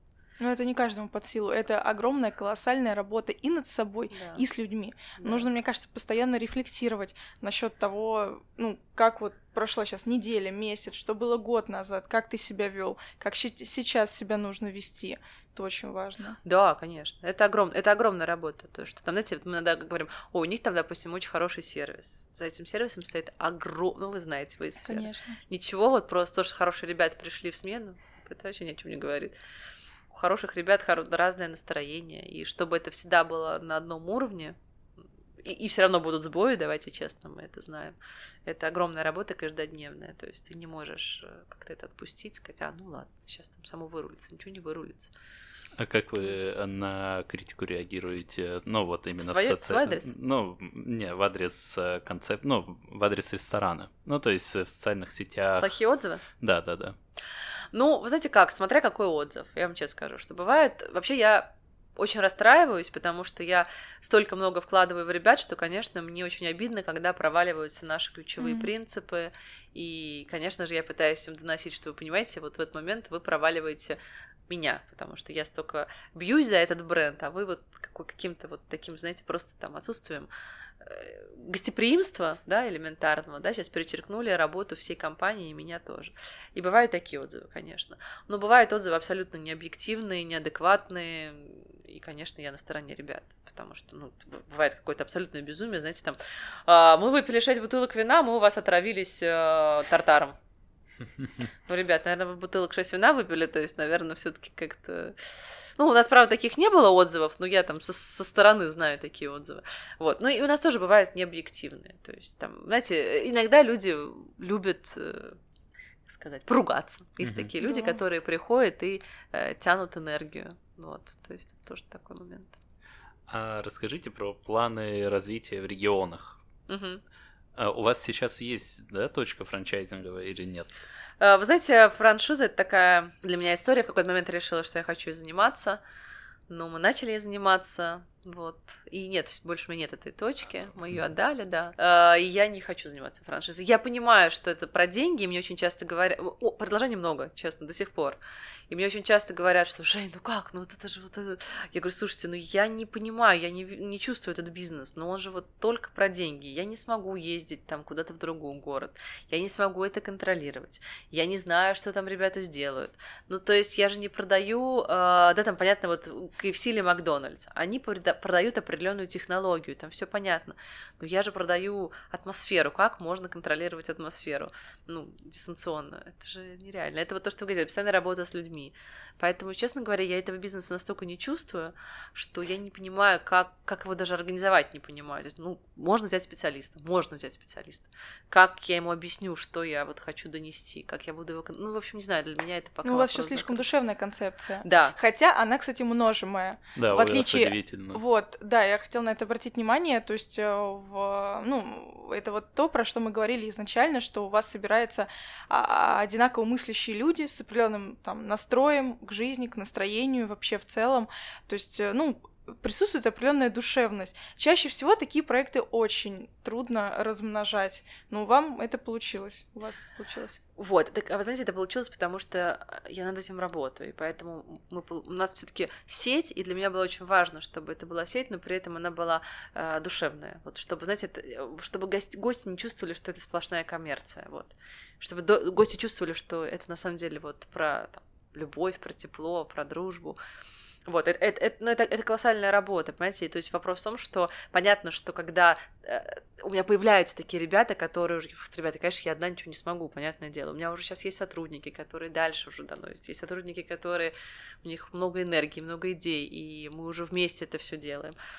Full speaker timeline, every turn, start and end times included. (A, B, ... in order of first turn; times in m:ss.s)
0:00.4-0:16.4 A
0:04.1-0:04.4 B
0:05.2-0:05.5 B
0:16.4-0:29.3 B
0:24.8-0:25.4 A
0:30.1-0:34.6 B
0:35.4-0:45.1 B
0:45.8-0:55.7 C
0:49.2-0:50.1 B
0:55.6-0:56.2 B
0:56.4-0:57.0 C
0:57.7-1:20.3 B
1:08.4-1:08.7 A
1:20.8-1:40.4 B
1:41.7-1:45.2 B
1:45.8-1:55.4 B
1:56.1-2:02.6 B
1:57.2-1:57.5 C
1:57.6-1:58.0 A
2:03.3-2:06.4 C
2:06.7-2:07.0 B
2:07.6-2:10.8 C
2:11.2-2:15.8 B
2:16.5-2:28.2 B
2:28.7-3:13.6 B
3:12.8-3:40.4 A
3:14.6-3:15.0 B
3:16.8-3:18.0 C
3:40.6-4:00.2 B
4:00.8-4:18.2 B